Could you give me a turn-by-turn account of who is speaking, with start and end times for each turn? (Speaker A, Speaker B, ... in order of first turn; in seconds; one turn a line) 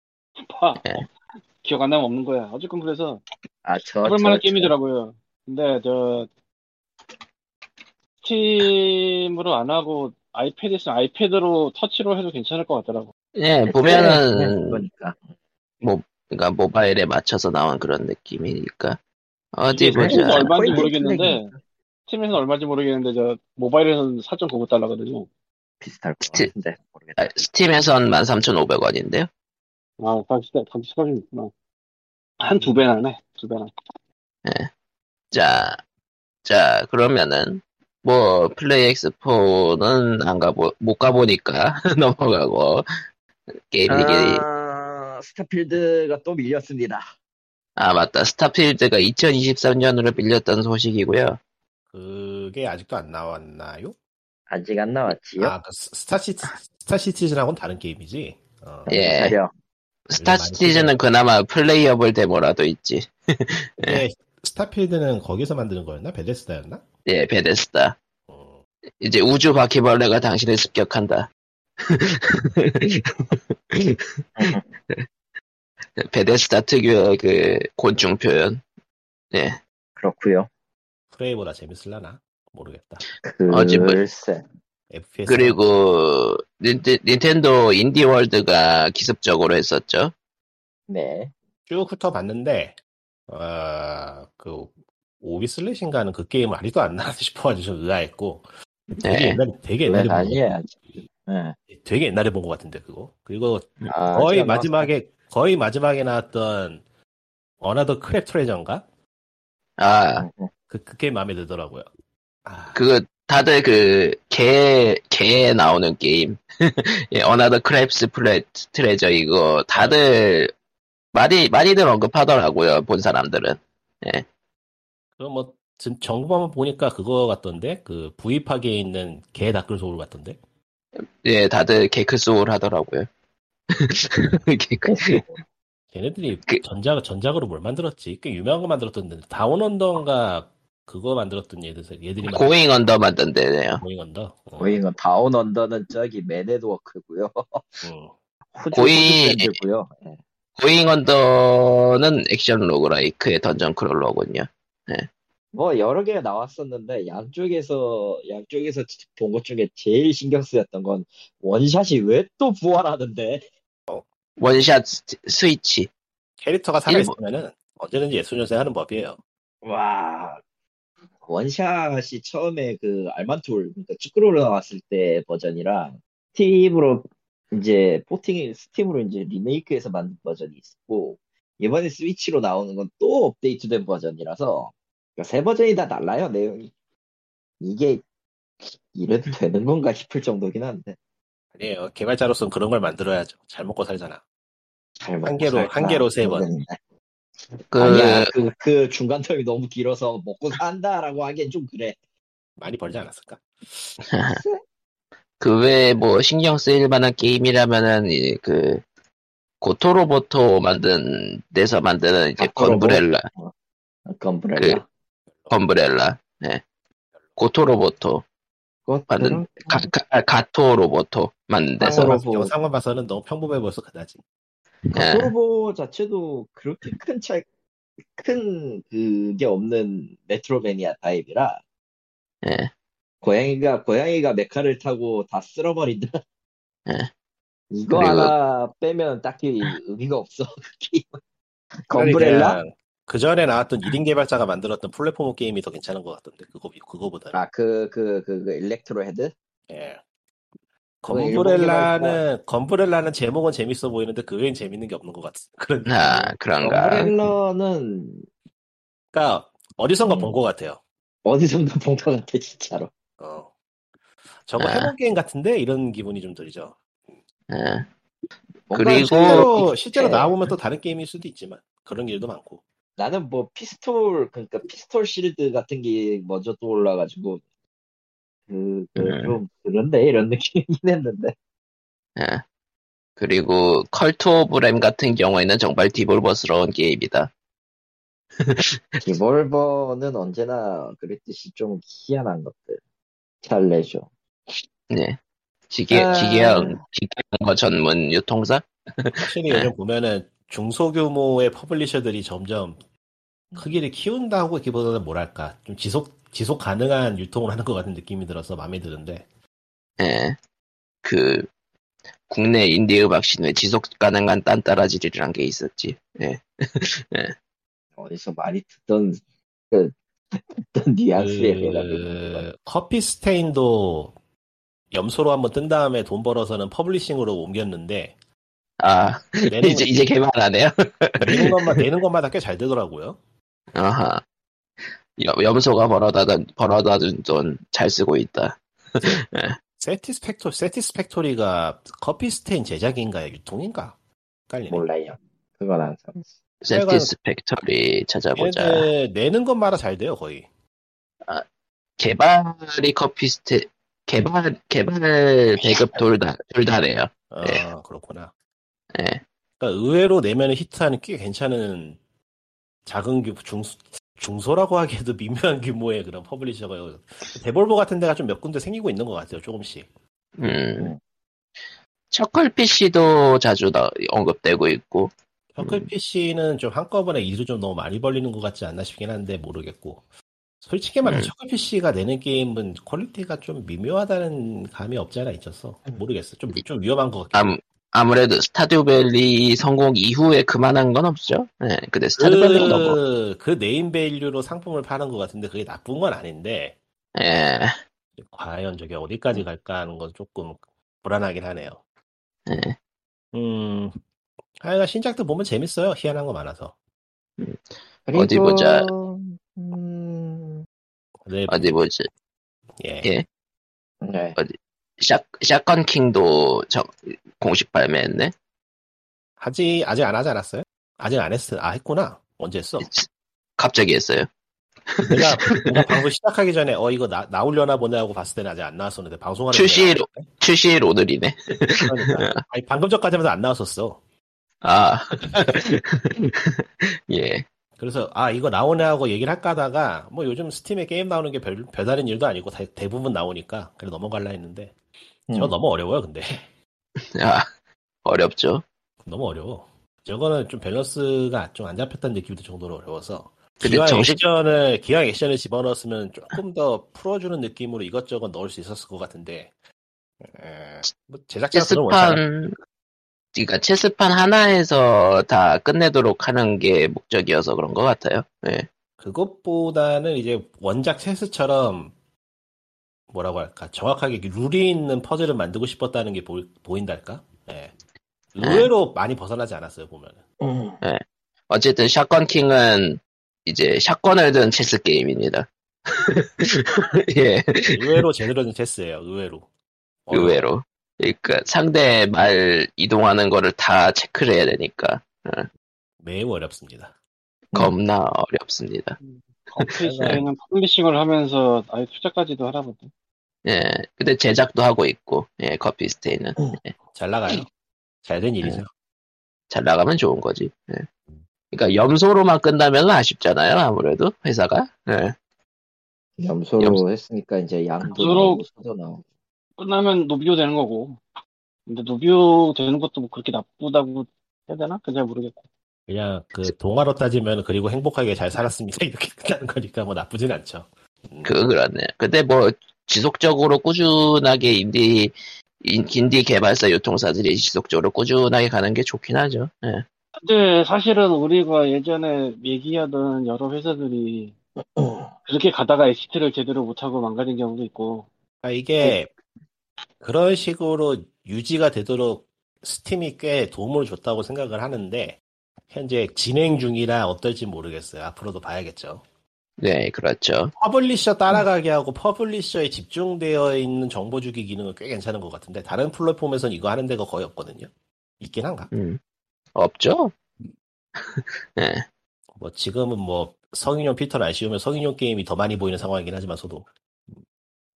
Speaker A: 0.4-1.0
Speaker A: 1.6-3.2
Speaker B: 3.6-4.7
Speaker A: 4.0-6.3
Speaker A: 8.2-13.1
Speaker C: 13.4-14.8
Speaker B: 13.7-15.2
Speaker C: 15.8-19.0
Speaker C: 19.5-20.9
Speaker A: 19.7-21.5
Speaker B: 20.0-21.5
Speaker A: 22.1-25.3
Speaker B: 25.8-27.3
Speaker C: 27.2-29.3
Speaker A: 30.0-31.5
Speaker A: 32.4-33.7
Speaker C: 34.5-34.7
Speaker C: 35.3-35.8
Speaker C: 36.5-42.9
Speaker C: 43.7-44.4
Speaker B: 43.9-47.0
Speaker C: 47.8-51.4
Speaker D: 51.9-54.0
Speaker B: 54.5-55.5
Speaker D: 55.4-58.9
Speaker B: 58.9-59.5
Speaker C: 58.9-59.4
Speaker C: 60.1-64.0
Speaker D: 60.2-61.0
Speaker D: 63.8-66.8
Speaker C: 67.1-68.0
Speaker D: 68.3-68.6
Speaker C: 69.0-71.3
Speaker C: 71.8-75.1
Speaker B: 74.4-74.6
Speaker C: 76.0-78.6
Speaker C: 79.3-79.6
Speaker B: 80.0-80.5
Speaker D: 81.1-83.0
Speaker B: 83.2-84.4
Speaker C: 83.5-84.0
Speaker D: 84.9-85.6
Speaker C: 85.3-90.1
Speaker B: 90.9-91.3
Speaker D: 91.7-92.8
Speaker D: 93.3-98.5
Speaker C: 99.0-99.4
Speaker D: 99.1-100.4
Speaker B: 99.9-101.6
Speaker D: 101.7-106.8
Speaker B: 103.9-104.9
Speaker D: 107.6-108.8
Speaker C: 109.8-110.3
Speaker B: 110.2-110.5
Speaker D: 110.7-111.9
Speaker D: 112.5-112.8
Speaker C: 112.7-120.5
Speaker C: 121.1-124.3
Speaker D: 125.2-130.4
Speaker C: 131.2-133.1
Speaker C: 133.7-135.2
Speaker B: 134.9-135.4
Speaker D: 135.9-142.5
Speaker C: 142.2-143.8
Speaker D: 143.8-144.8
Speaker B: 144.6-147.8
Speaker D: 147.8-148.1
Speaker B: 148.5-150.2
Speaker C: 148.7-149.5
Speaker C: 150.6-155.1
Speaker B: 155.5-163.4
Speaker C: 164.4-165.9
Speaker D: 166.4-169.2
Speaker C: 166.9-167.1
Speaker B: 169.6-170.4
Speaker B: 171.2-186.7
Speaker B: 187.6-188.0
Speaker B: 188.6-191.0
Speaker D: 191.6-194.2
Speaker B: 195.0-196.8
Speaker D: 195.2-196.5
Speaker C: 197.7-198.3
Speaker B: 197.8-202.0
Speaker D: 202.6-204.0
Speaker C: 204.1-204.4
Speaker B: 204.3-204.6
Speaker C: 205.4-208.8
Speaker C: 209.6-213.3
Speaker B: 212.4-213.5
Speaker B: 214.1-214.8
Speaker C: 214.6-214.8
Speaker C: 215.5-216.6
Speaker C: 217.4-218.2
Speaker B: 218.9-219.9
Speaker C: 219.1-222.2
Speaker B: 221.8-222.5
Speaker D: 222.0-224.2
Speaker C: 224.9-225.3
Speaker B: 224.9-227.4
Speaker B: 228.2-231.6
Speaker C: 232.4-232.7
Speaker B: 233.2-236.2
Speaker B: 237.7-241.2
Speaker C: 237.9-238.3
Speaker B: 241.9-242.6
Speaker D: 241.9-247.4
Speaker B: 247.3-249.3
Speaker D: 249.7-250.0
Speaker D: 251.0-256.3
Speaker B: 251.1-252.2
Speaker C: 255.9-257.3
Speaker B: 256.6-258.3
Speaker D: 259.1-260.8
Speaker B: 260.1-260.3
Speaker B: 261.2-262.9
Speaker D: 263.2-263.5
Speaker D: 264.5-266.8
Speaker C: 264.6-264.9
Speaker C: 267.5-267.9
Speaker B: 268.7-270.3
Speaker C: 268.7-270.1
Speaker D: 268.8-272.6
Speaker B: 273.0-277.4
Speaker B: 278.5-281.4
Speaker C: 279.0-279.4
Speaker C: 282.2-282.4
Speaker C: 283.2-287.3
Speaker C: 288.4-289.0
Speaker B: 289.0-292.8
Speaker B: 293.4-294.1
Speaker C: 294.9-295.2
Speaker C: 295.7-299.7
Speaker B: 295.9-296.8
Speaker D: 299.2-302.8
Speaker D: 303.6-309.2
Speaker C: 310.0-310.4
Speaker C: 311.0-311.5
Speaker C: 312.3-317.3
Speaker B: 318.0-322.4
Speaker D: 321.1-324.1
Speaker D: 324.9-328.1
Speaker C: 328.8-331.8
Speaker D: 329.5-329.9
Speaker D: 331.2-333.2
Speaker C: 333.8-334.2
Speaker C: 335.2-339.6
Speaker D: 339.8-343.9
Speaker D: 344.5-344.9
Speaker B: 344.7-346.2
Speaker C: 346.6-348.9
Speaker D: 346.7-347.1
Speaker D: 348.4-350.5
Speaker C: 352.0-357.6
Speaker D: 357.3-358.3
Speaker C: 358.9-359.2
Speaker D: 359.6-362.0
Speaker D: 362.9-369.9
Speaker C: 370.4-370.9
Speaker C: 372.1-375.9
Speaker D: 375.6-380.0
Speaker D: 380.6-387.5
Speaker C: 381.1-381.3
Speaker C: 387.3-393.0
Speaker D: 392.2-396.8
Speaker C: 397.1-397.8
Speaker D: 398.2-401.8
Speaker C: 402.5-402.8
Speaker D: 403.3-404.0
Speaker D: 404.6-406.7
Speaker C: 407.4-407.6
Speaker B: 408.1-410.6
Speaker C: 408.1-408.9
Speaker D: 411.2-411.7
Speaker C: 411.5-412.1
Speaker D: 412.8-413.1
Speaker B: 414.0-414.4
Speaker C: 414.4-418.3
Speaker D: 419.4-422.9
Speaker C: 422.8-424.3
Speaker C: 424.9-425.9
Speaker D: 425.1-430.3
Speaker C: 429.5-432.4
Speaker D: 431.9-434.0
Speaker C: 434.6-437.4
Speaker D: 437.8-444.7
Speaker B: 445.3-445.5
Speaker D: 445.3-446.4
Speaker C: 447.1-447.5
Speaker C: 448.1-448.6
Speaker D: 449.1-459.5
Speaker C: 453.6-454.2
Speaker D: 460.2-462.2
Speaker C: 461.5-462.5
Speaker C: 463.4-468.7
Speaker D: 469.0-471.9
Speaker D: 473.1-477.7
Speaker D: 478.3-480.2
Speaker C: 478.4-478.7
Speaker B: 480.4-480.8
Speaker C: 480.8-487.8
Speaker D: 487.7-489.5
Speaker D: 490.1-490.4
Speaker C: 490.1-495.5
Speaker D: 496.0-496.9
Speaker C: 497.5-499.0
Speaker A: 499.0-502.9
Speaker C: 499.6-500.2
Speaker B: 499.8-500.2
Speaker C: 503.4-506.7
Speaker D: 506.9-507.5
Speaker D: 508.0-508.7
Speaker C: 509.5-510.9
Speaker C: 511.5-515.1
Speaker B: 516.2-519.0
Speaker A: 517.9-518.4
Speaker A: 519.6-521.0
Speaker A: 521.7-525.4
Speaker D: 525.9-531.3
Speaker C: 531.2-539.9
Speaker A: 540.1-544.3
Speaker B: 544.8-545.1
Speaker A: 545.2-548.1
Speaker D: 548.4-549.1
Speaker D: 550.0-555.2
Speaker D: 555.7-559.0
Speaker C: 559.6-560.5
Speaker D: 560.6-567.7
Speaker D: 568.2-568.7
Speaker C: 568.7-569.0
Speaker C: 569.5-570.1
Speaker C: 571.0-571.9
Speaker D: 572.4-576.7